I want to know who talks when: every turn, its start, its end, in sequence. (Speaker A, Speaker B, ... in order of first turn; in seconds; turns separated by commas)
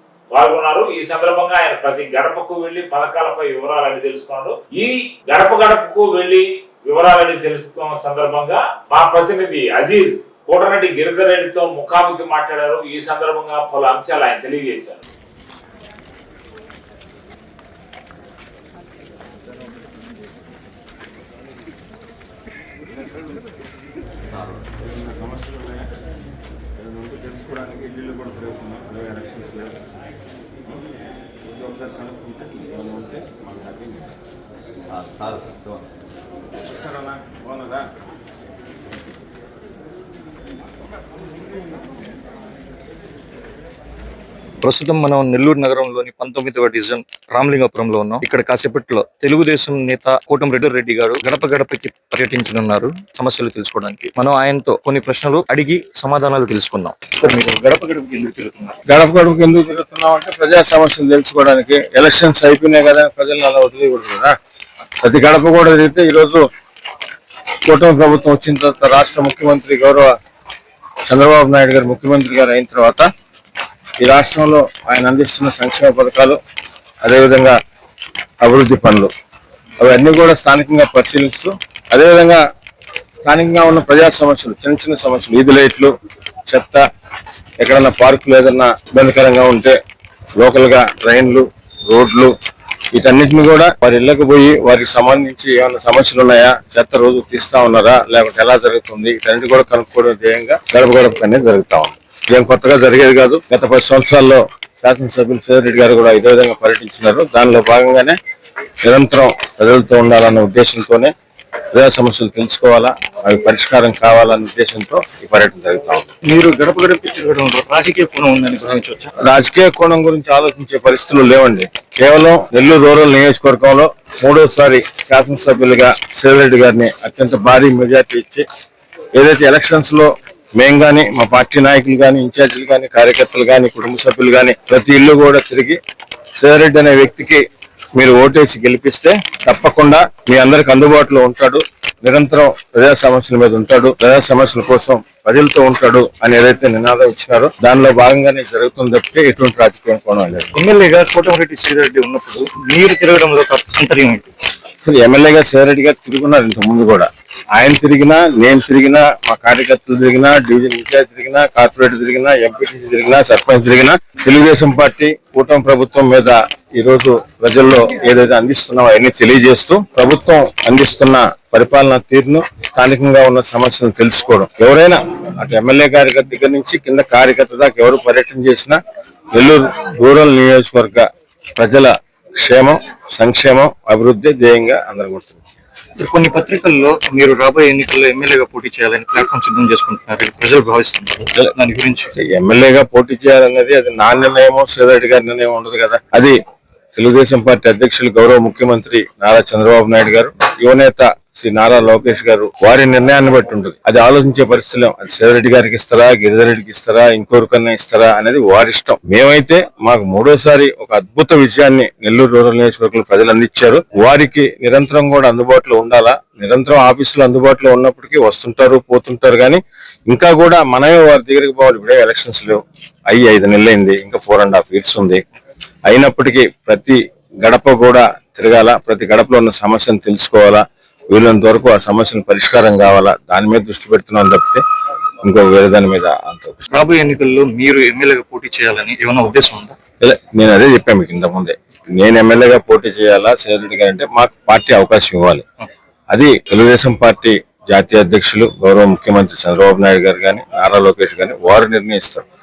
Speaker A: 0.3-15.0, Speaker B: 24.6-25.9, Speaker B: 26.8-29.9, Speaker B: 31.4-34.1, Speaker B: 35.0-35.8, Speaker B: 36.6-37.9, Speaker C: 44.6-58.8, Speaker B: 58.9-64.3, Speaker B: 65.0-66.5, Speaker B: 67.7-70.1, Speaker B: 71.1-73.1, Speaker B: 74.0-76.4, Speaker B: 77.0-77.6, Speaker B: 78.4-79.1, Speaker B: 79.8-82.4, Speaker B: 83.2-85.9, Speaker B: 86.5-86.8, Speaker B: 87.6-89.8, Speaker B: 90.4-92.3, Speaker B: 92.9-108.2, Speaker B: 108.8-111.1, Speaker B: 111.7-116.1, Speaker C: 116.2-119.1, Speaker B: 119.2-128.5, Speaker B: 129.2-135.8, Speaker B: 136.4-137.4, Speaker B: 137.9-150.5, Speaker C: 150.6-154.3, Speaker B: 154.8-178.8, Speaker B: 179.3-181.1, Speaker B: 181.6-185.4, Speaker C: 186.0-192.1, Speaker B: 192.2-196.4, Speaker B: 196.9-225.2, Speaker B: 225.9-234.6, Speaker B: 235.2-236.7, Speaker C: 236.7-239.8, Speaker B: 240.0-245.4, Speaker B: 246.1-252.2